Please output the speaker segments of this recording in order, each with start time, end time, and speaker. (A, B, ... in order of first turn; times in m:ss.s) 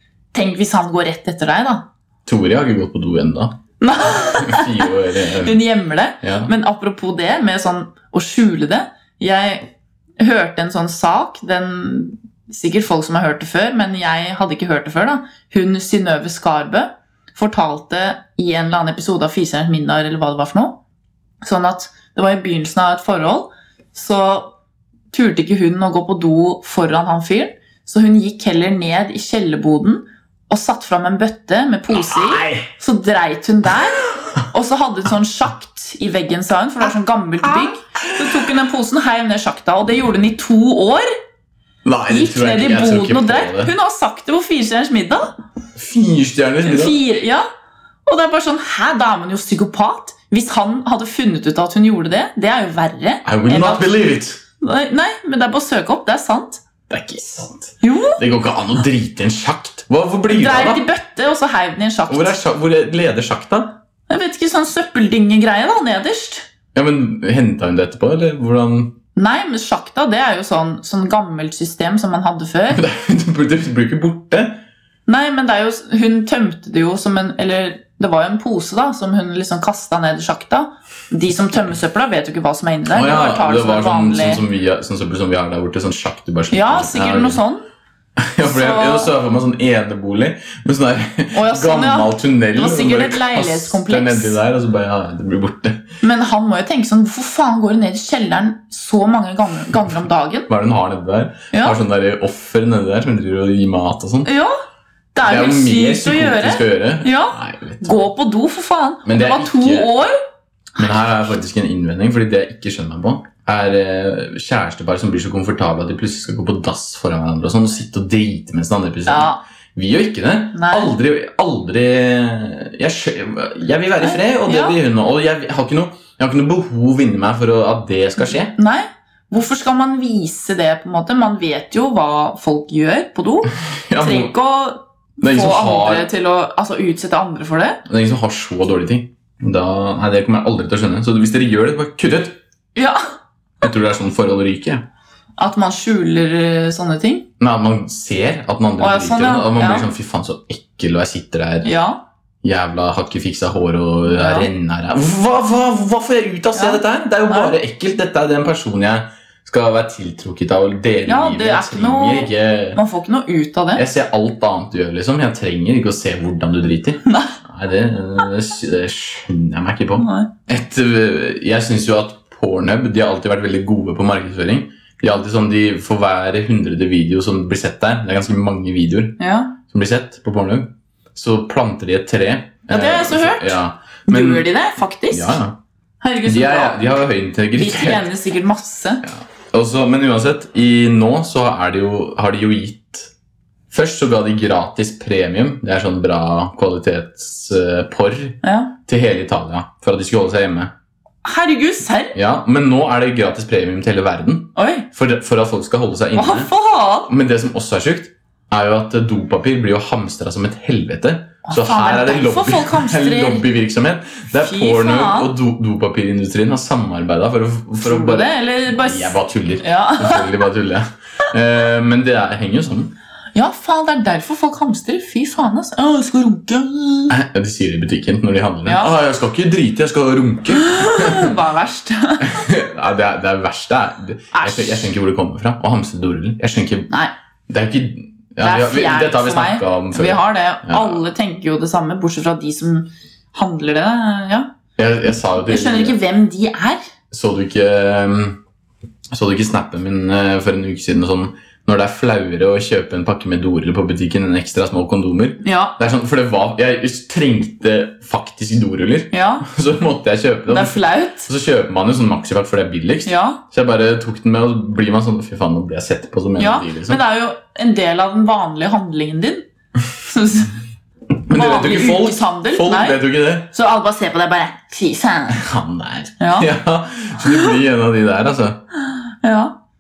0:00.3-0:01.8 A
0:02.2-0:03.6 B
0:03.8-0:20.8 A
0:04.2-0:05.6 B
0:06.2-0:06.5 B
0:21.4-0:24.5 A
0:25.1-0:41.1 A
0:31.9-0:32.6 B
0:41.8-0:43.7 B
0:42.1-0:45.3 A
0:45.8-0:47.0 B
0:46.6-0:47.4 A
0:48.0-0:56.6 A
0:53.2-0:54.4 B
0:56.9-1:00.8 B
0:57.8-0:58.2 A
1:00.3-1:02.4 A
1:02.1-1:03.8 B
1:04.1-1:06.5 A
1:06.7-1:09.0 B
1:09.2-1:12.8 A
1:12.7-1:14.6 B
1:15.1-1:24.4 A
1:22.9-1:27.4 B
1:26.5-1:27.6 A
1:28.2-1:35.9 B
1:28.4-1:29.1 A
1:31.3-1:34.4 A
1:36.0-1:40.5 A
1:40.5-1:44.3 B
1:41.5-1:41.8 A
1:44.2-1:44.5 A
1:45.1-1:50.2 A
1:45.2-1:48.0 B
1:49.0-1:49.9 B
1:50.8-2:08.6 B
1:59.0-1:59.4 A
2:00.5-2:00.9 A
2:04.0-2:04.8 A
2:08.6-2:17.8 A
2:13.9-2:14.3 B
2:15.2-2:16.1 B
2:17.8-2:22.4 B
2:22.7-2:23.0 A
2:23.6-2:24.8 B
2:25.4-2:27.3 A
2:27.4-2:31.8 B
2:28.8-2:29.9 A
2:31.6-2:32.0 A
2:32.4-2:42.8 B
2:34.1-2:34.5 A
2:36.5-2:37.6 A
2:41.1-2:43.8 A
2:43.7-3:04.5 B
2:47.1-2:47.4 A
2:50.0-2:50.3 A
2:59.2-2:59.6 A
3:02.7-3:05.4 A
3:05.1-3:05.6 B
3:06.0-3:06.9 A
3:06.2-3:08.1 B
3:07.5-3:09.0 A
3:09.0-3:13.1 B
3:13.7-3:20.7 B
3:18.4-3:18.7 A
3:21.2-3:22.2 A
3:22.1-3:26.5 B
3:24.5-3:24.9 A
3:26.1-3:27.1 A
3:27.1-3:42.9 B
3:31.4-3:33.4 A
3:34.4-3:35.3 A
3:37.8-3:40.3 A
3:43.3-3:47.1 A
3:47.1-3:51.3 B
3:48.6-3:48.9 A
3:50.5-3:52.4 A
3:52.2-3:56.9 B
3:54.3-3:54.9 A
3:57.5-4:01.0 B
3:58.4-4:04.5 A
4:04.8-4:06.0 B
4:05.4-4:06.8 A
4:07.1-4:08.4 B
4:09.1-4:27.0 B
4:15.4-4:15.8 A
4:19.1-4:19.5 A
4:20.5-4:21.3 A
4:23.0-4:23.4 A
4:26.4-4:29.4 A
4:30.0-4:30.5 A
4:31.3-4:33.5 B
4:31.3-4:35.4 A
4:35.3-4:38.6 B
4:36.2-4:36.5 A
4:39.2-4:39.6 A